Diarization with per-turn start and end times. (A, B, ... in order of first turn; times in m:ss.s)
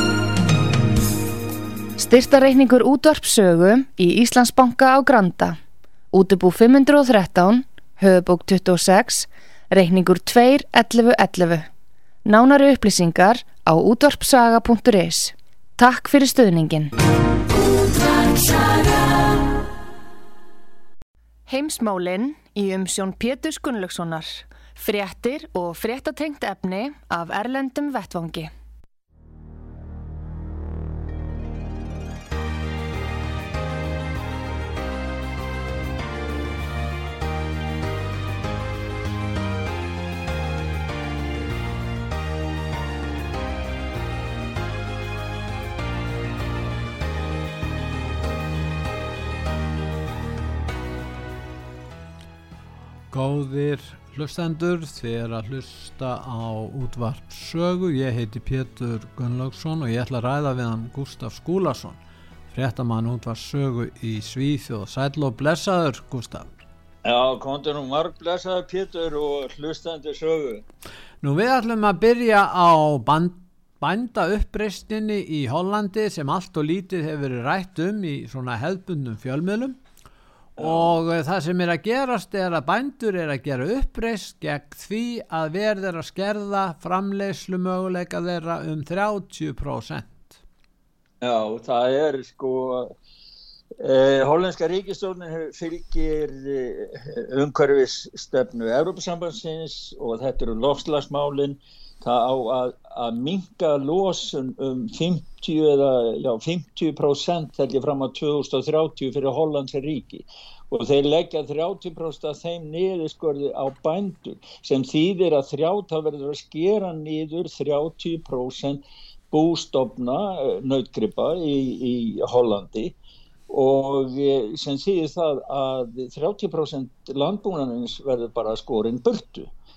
0:02.0-0:05.6 A
0:06.1-0:11.7 A
0:12.2-0:16.9 A
0:17.6-0:19.1 A
0:21.5-0:28.5 A
0:53.1-1:02.0 B
1:02.5-1:06.6 B
1:07.0-1:10.6 C
1:11.2-1:19.8 B
1:20.6-1:20.9 C
1:20.6-1:30.4 B
1:31.2-1:32.9 C
1:33.8-2:02.9 C
2:03.5-2:09.5 C